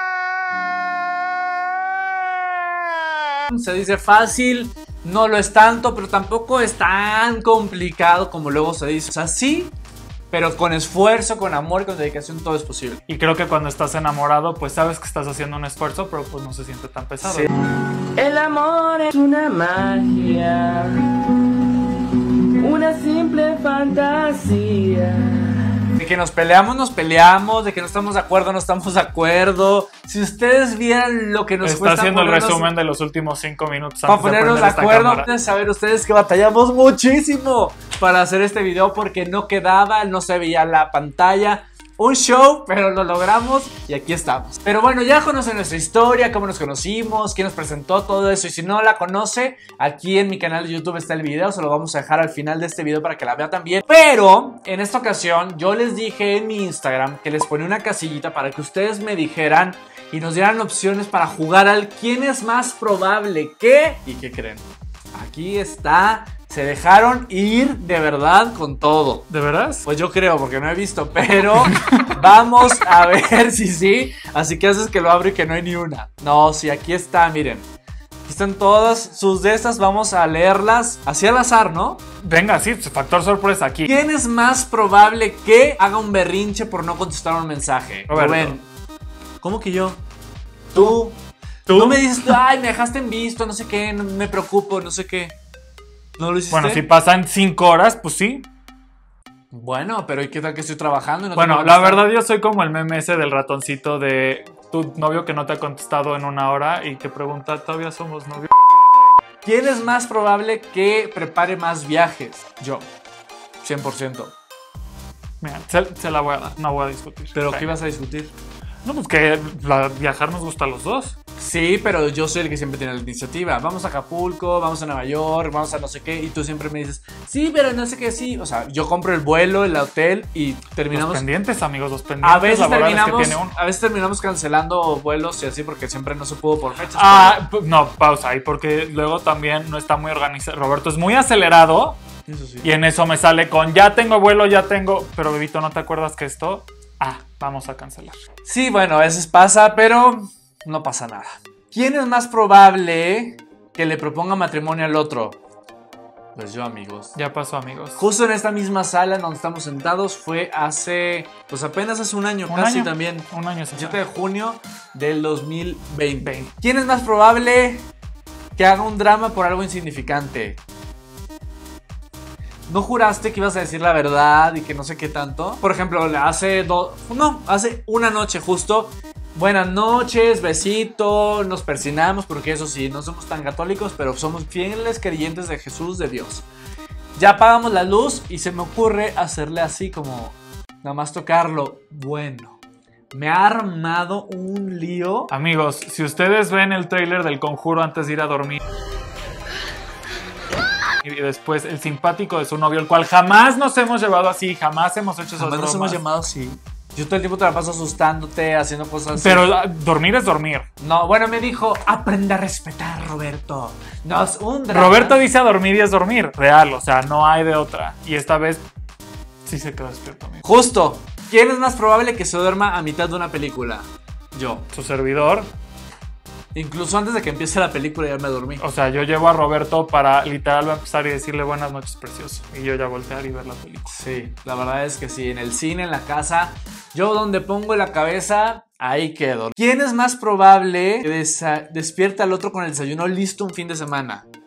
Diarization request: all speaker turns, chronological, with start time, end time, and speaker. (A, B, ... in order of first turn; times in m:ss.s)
0:03.3-0:09.7 A
0:10.3-0:13.0 A
0:13.1-0:17.5 B
0:17.2-0:17.5 A
0:18.2-0:21.0 C
0:22.6-0:25.6 C
0:26.0-0:32.7 A
0:31.6-0:35.3 B
0:34.0-1:09.3 A
1:09.3-1:09.8 B
1:09.8-1:17.7 A
1:18.2-1:22.0 A
1:22.2-1:23.9 B
1:23.8-1:28.6 A
1:28.1-1:28.6 B
1:29.4-1:30.0 A
1:30.7-1:35.4 A
1:31.7-1:32.3 B
1:36.2-1:36.8 A
1:36.5-1:38.5 B
1:39.5-1:42.0 A
1:41.3-1:48.5 B
1:49.4-1:52.9 A
1:53.6-1:54.3 A
1:55.4-1:57.7 B
1:57.3-1:58.3 A
1:58.8-2:01.1 B
2:01.4-2:11.2 A
2:10.9-2:13.6 B
2:12.2-2:17.4 A
2:16.9-2:22.0 B
2:22.3-2:22.7 A
2:22.6-2:28.2 B
2:28.4-2:35.4 A
2:36.3-2:37.1 A
2:37.1-2:38.0 B
2:38.0-2:47.9 A
2:42.5-2:44.0 B
2:46.2-2:46.5 B
2:48.6-2:50.6 A
2:52.7-3:06.5 A
3:07.2-3:12.6 A
3:13.1-3:15.3 A
3:15.3-3:18.6 B
3:21.0-3:26.0 B
3:25.4-3:29.5 A
3:29.1-3:30.7 B
3:30.8-3:35.2 A
3:34.7-3:38.6 B
3:39.4-3:40.4 B
3:40.4-3:44.7 A
3:44.7-3:45.5 B
3:46.5-3:48.6 A
3:48.6-3:53.9 B
3:53.9-4:04.2 A